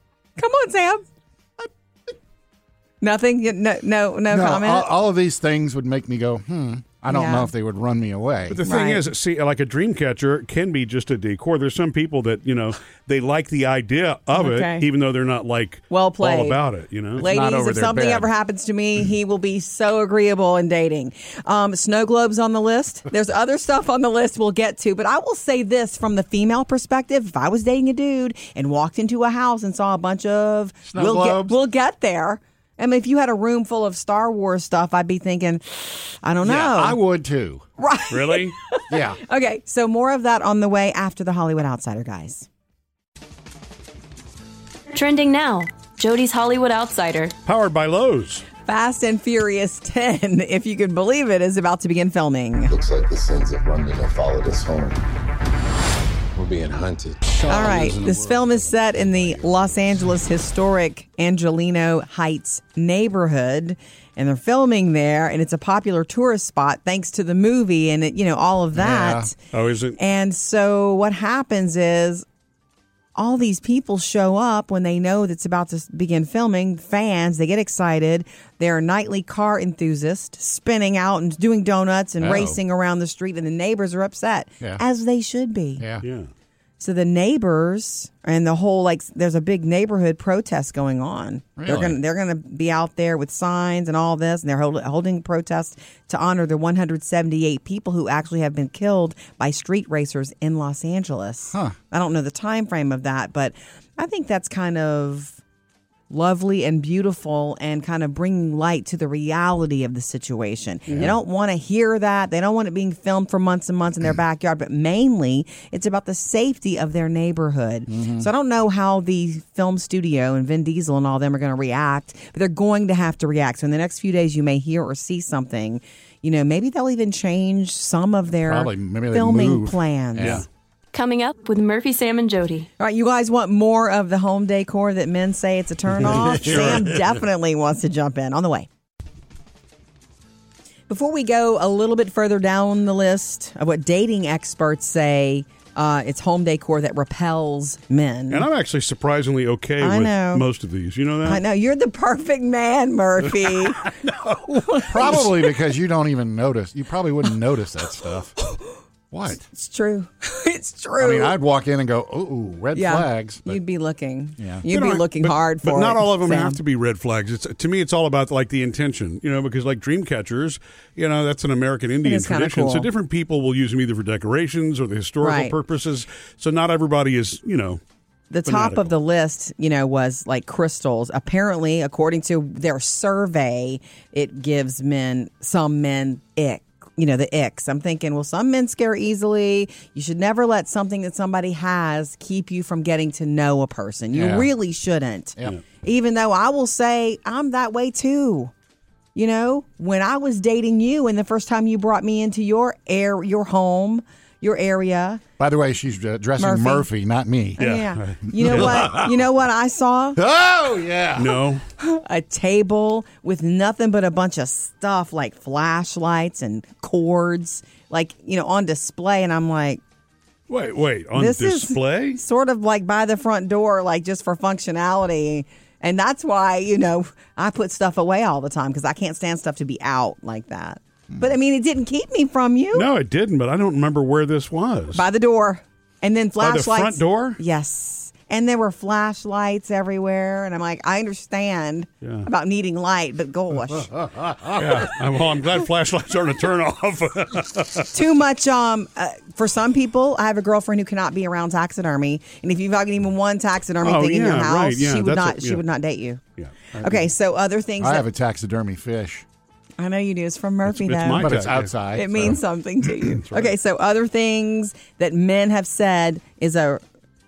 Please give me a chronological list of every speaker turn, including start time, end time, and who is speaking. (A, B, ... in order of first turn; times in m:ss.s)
0:00.4-0:01.0 A
0:03.0-0:04.9 A
0:04.3-0:08.6 B
0:07.1-0:07.5 A
0:08.5-0:17.2 C
0:08.6-0:09.0 A
0:14.3-0:14.9 A
0:15.9-0:16.6 A
0:17.2-0:18.3 B
0:17.2-0:37.0 A
0:30.9-0:31.6 B
0:36.4-0:37.6 B
0:37.8-0:42.5 A
0:38.1-0:38.5 C
0:38.9-0:39.2 B
0:44.9-0:47.3 D
0:47.4-0:48.5 C
0:48.6-0:52.7 A
0:52.7-0:55.0 E
0:56.3-0:57.7 E
0:57.3-0:59.7 B
0:57.5-1:09.4 A
1:08.8-1:09.3 B
1:09.5-1:10.0 C
1:10.0-1:12.2 A
1:13.2-1:25.8 A
1:22.2-1:22.6 B
1:26.0-1:26.3 C
1:26.8-1:45.4 A
1:31.6-1:32.0 B
1:46.1-2:10.4 A
1:50.9-1:51.2 B
1:57.9-1:58.3 B
2:08.4-2:10.4 B
2:10.2-2:10.5 C
2:10.9-2:12.7 D
2:12.8-2:18.7 A
2:16.0-2:17.0 B
2:16.1-2:16.8 C
2:20.9-2:28.5 A
2:28.3-2:31.4 C
2:29.8-2:30.5 A
2:31.2-2:35.5 A
2:33.9-2:34.8 C
2:34.9-2:38.4 B
2:39.1-2:39.4 B
2:39.5-2:41.4 A
2:41.0-2:43.6 B
2:42.7-2:46.6 A
2:44.4-2:44.6 B
2:44.7-2:57.8 C
2:52.0-2:52.9 A
2:55.2-2:55.6 A
2:58.3-3:18.5 A
2:58.5-2:59.0 C
3:14.1-3:14.5 B
3:19.2-3:25.2 A
3:25.4-3:27.7 B
3:26.4-3:26.9 A
3:27.6-3:30.2 A
3:27.6-3:28.9 C
3:28.3-3:29.2 B
3:30.2-3:31.4 B
3:31.2-3:31.6 C
3:31.8-3:39.8 A
3:40.5-3:42.2 C
3:41.2-3:52.9 A
3:52.7-3:55.0 C
3:54.9-4:04.0 A
3:56.4-3:57.4 C
4:02.0-4:02.3 C
4:03.9-4:04.6 B
4:04.5-4:07.9 C
4:07.9-4:16.2 A
4:13.8-4:15.6 C
4:16.4-4:17.0 C
4:16.8-4:18.0 A
4:17.8-4:19.2 B
4:19.8-4:26.8 A
4:20.7-4:21.7 C
4:21.2-4:22.4 B
4:23.1-4:23.6 C